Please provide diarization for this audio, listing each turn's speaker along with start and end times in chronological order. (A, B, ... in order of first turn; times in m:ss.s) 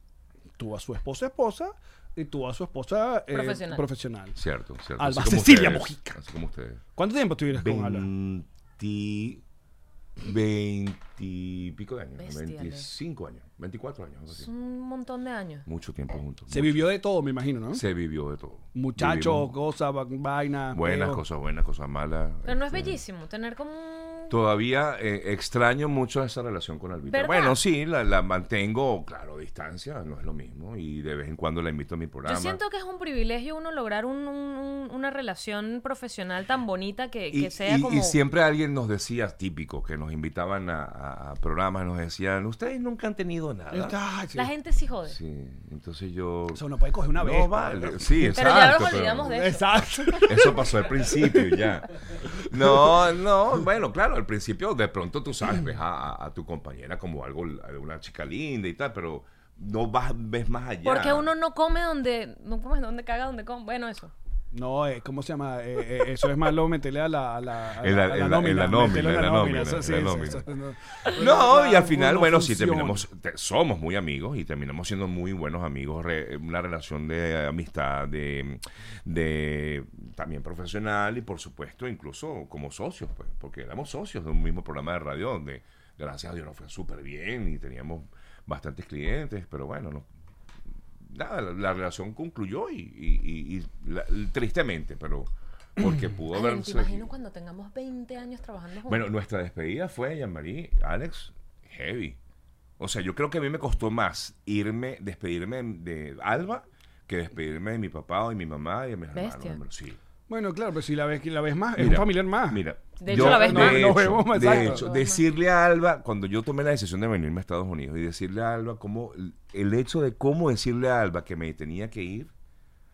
0:00.6-0:04.3 A
0:03.3-0:03.8 B
0:04.4-0:06.8 C
0:05.0-0:06.2 A
0:07.0-0:08.1 A
0:07.5-0:09.4 C
0:10.2-0:14.5 C
0:12.2-0:12.9 B
0:14.4-0:15.6 B
0:15.6-0:16.9 C
0:16.5-0:17.8 A
0:17.7-0:19.5 C
0:18.7-0:21.2 A
0:20.7-0:23.0 C
0:22.4-0:24.3 B
0:24.3-0:32.6 C
0:27.1-0:27.6 B
0:32.2-0:38.2 B
0:37.3-0:44.0 C
0:43.7-0:44.5 A
0:44.3-0:45.2 B
0:45.1-0:46.6 C
0:46.5-0:48.6 A
0:47.2-0:49.4 C
0:48.4-0:49.6 B
0:49.2-0:51.5 A
0:50.3-1:01.3 C
0:52.6-0:53.0 A
1:00.8-1:04.1 B
1:04.5-1:13.0 A
1:07.8-1:10.4 C
1:11.1-1:30.1 C
1:31.0-1:37.1 C
1:36.3-1:39.1 B
1:38.9-1:42.2 C
1:42.8-1:50.0 C
1:49.1-1:49.6 B
1:50.3-1:54.8 A
1:51.8-2:02.3 C
1:53.0-1:55.2 B